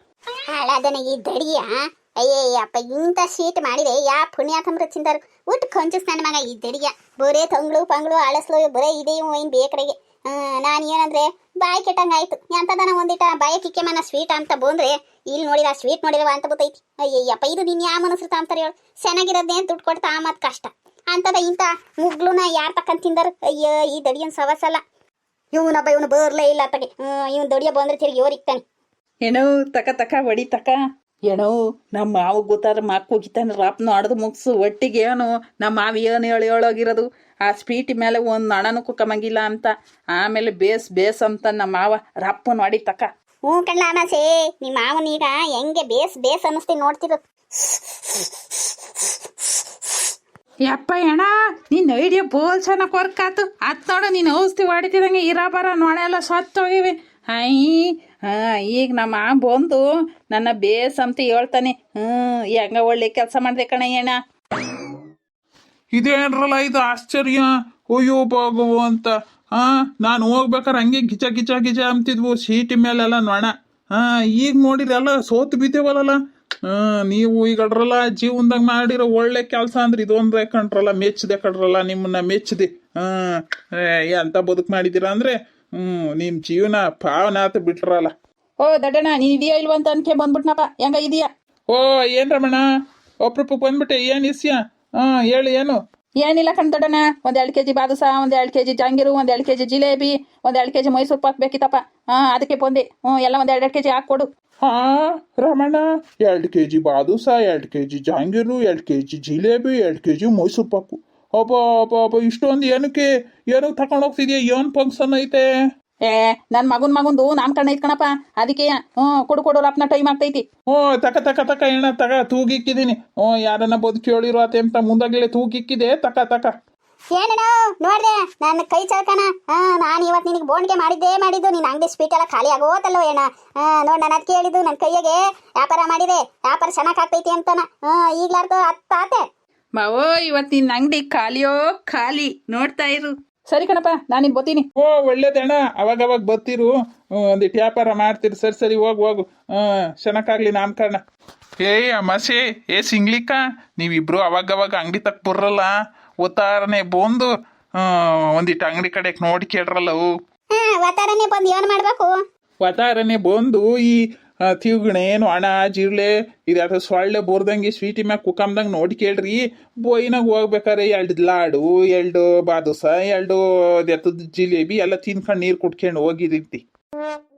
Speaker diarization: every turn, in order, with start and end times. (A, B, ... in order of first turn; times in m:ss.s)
0:00.5-0:24.8 A
0:25.5-0:28.6 A
0:29.2-0:30.8 B
0:31.3-0:43.1 B
0:43.4-0:48.3 A
0:50.7-1:04.2 B
1:05.9-1:28.1 C
1:28.6-1:31.3 B
1:31.7-1:32.6 C
1:33.2-1:35.8 C
1:36.2-1:44.3 B
1:44.6-1:55.4 C
1:56.0-2:00.4 B
2:00.7-2:06.5 C
2:07.1-2:19.2 A
2:19.8-2:24.6 B
2:24.8-2:26.7 C
2:27.2-2:31.0 C
2:31.6-2:40.0 C
2:40.5-2:42.1 A
2:42.6-2:56.6 C